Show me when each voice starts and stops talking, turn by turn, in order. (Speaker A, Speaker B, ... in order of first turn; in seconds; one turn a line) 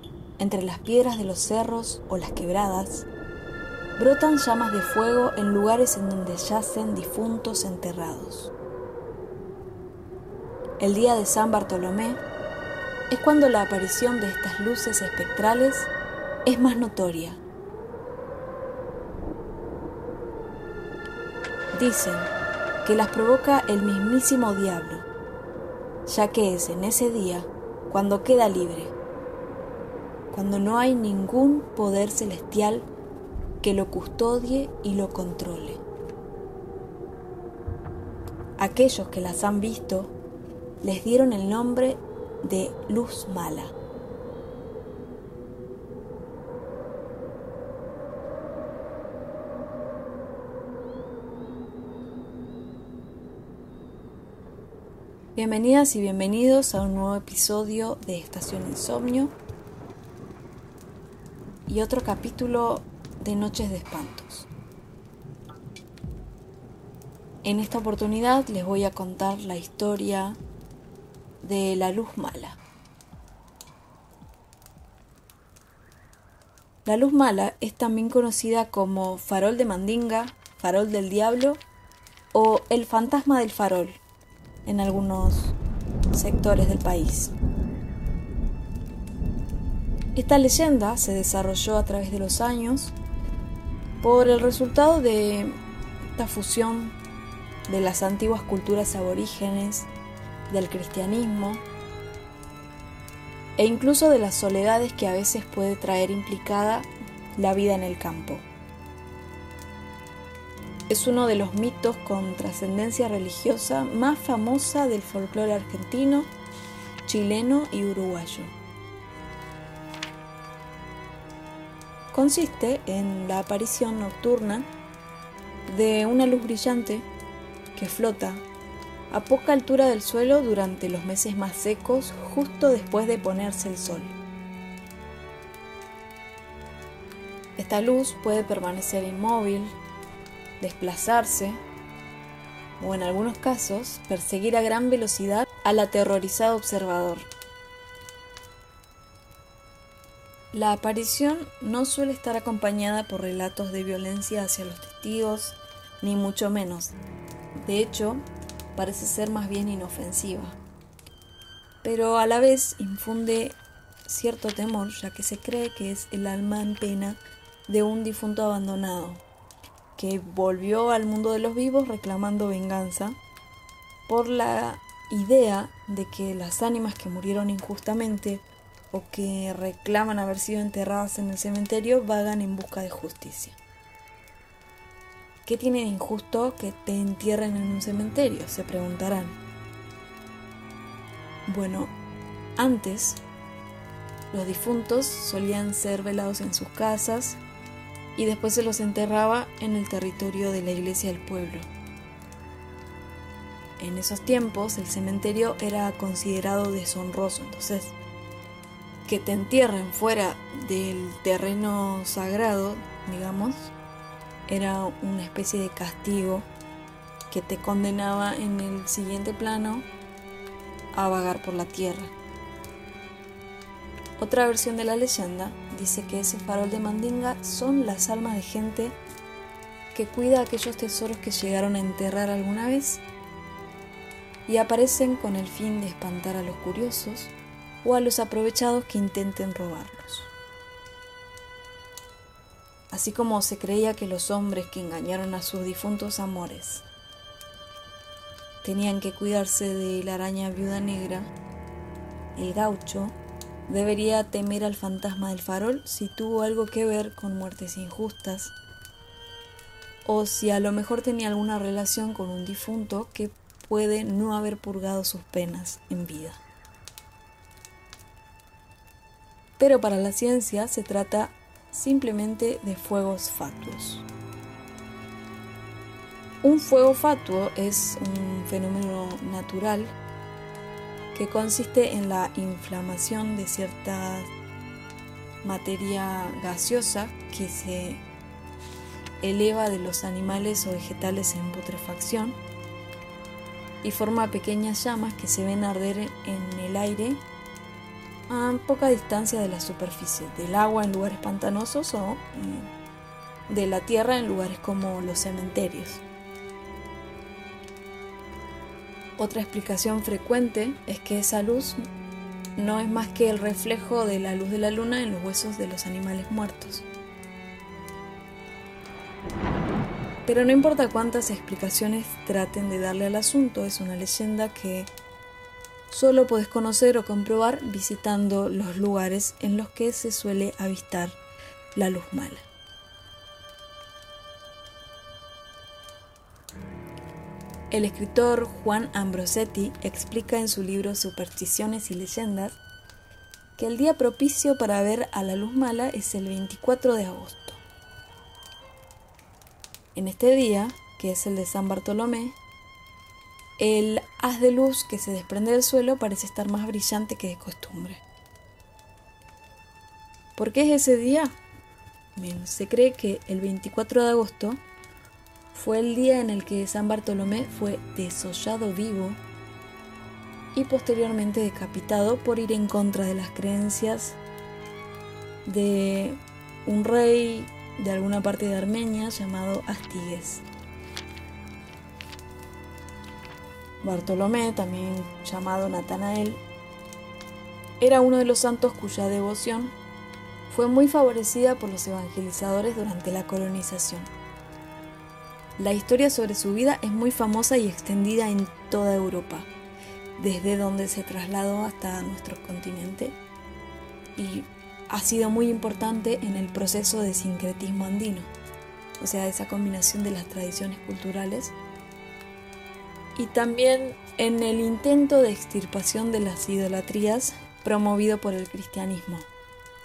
Speaker A: 0.4-3.1
Speaker A: 4.0-8.5
Speaker A: 10.8-12.2
Speaker A: 13.1-15.9
Speaker A: 16.4-17.4
Speaker A: 21.7-22.3
Speaker A: 22.8-25.1
Speaker A: 26.1-28.9
Speaker A: 30.3-32.9
Speaker A: 33.6-35.8
Speaker A: 38.6-40.1
Speaker A: 40.8-43.7
Speaker A: 55.4-59.3
Speaker A: 61.7-64.5
Speaker A: 67.4-70.4
Speaker A: 71.4-72.6
Speaker A: 76.8-81.6
Speaker A: 82.3-84.0
Speaker A: 84.6-85.5
Speaker A: 86.1-87.3
Speaker A: 90.1-92.9
Speaker A: 94.0-95.6
Speaker A: 96.2-97.0
Speaker A: 97.7-99.9
Speaker A: 100.5-101.6
Speaker A: 103.6-108.5
Speaker A: 110.9-116.3
Speaker A: 117.0-118.5
Speaker A: 122.1-124.7
Speaker A: 125.7-127.1
Speaker A: 127.7-128.4
Speaker A: 129.1-134.2
Speaker A: 137.6-139.8
Speaker A: 140.6-141.6
Speaker A: 142.8-147.3
Speaker A: 150.5-156.9
Speaker A: 157.6-160.6
Speaker A: 161.8-169.2
Speaker A: 169.9-173.2
Speaker A: 174.1-183.6
Speaker A: 185.4-189.4
Speaker A: 191.5-191.9
Speaker A: 192.6-193.2
Speaker A: 194.3-197.4
Speaker A: 198.2-201.7
Speaker A: 203.8-207.9
Speaker A: 209.0-213.7
Speaker A: 214.5-216.5
Speaker A: 217.3-219.9
Speaker A: 220.9-222.1
Speaker A: 224.2-229.0
Speaker A: 229.9-233.0
Speaker A: 234.5-240.3
Speaker A: 242.9-246.8
Speaker A: 248.6-251.3
Speaker A: 252.3-258.5
Speaker A: 260.0-266.4
Speaker A: 269.6-274.1
Speaker A: 276.4-279.9
Speaker A: 281.1-284.3
Speaker A: 285.4-288.0
Speaker A: 289.2-292.4
Speaker A: 293.8-297.2
Speaker A: 298.3-302.7
Speaker A: 303.5-306.0
Speaker A: 309.2-311.8
Speaker A: 312.6-316.9
Speaker A: 320.2-324.9
Speaker A: 325.9-331.2
Speaker A: 331.7-332.5
Speaker A: 337.7-342.6
Speaker A: 343.6-347.6
Speaker A: 349.9-352.4
Speaker A: 353.6-358.0
Speaker A: 360.4-361.4
Speaker A: 362.1-364.6
Speaker A: 365.5-369.2
Speaker A: 370.5-374.2
Speaker A: 375.4-380.4
Speaker A: 383.8-386.4
Speaker A: 387.8-389.7
Speaker A: 390.5-394.1
Speaker A: 395.6-399.5
Speaker A: 400.2-403.2
Speaker A: 404.1-408.3
Speaker A: 409.0-411.5
Speaker A: 413.1-419.3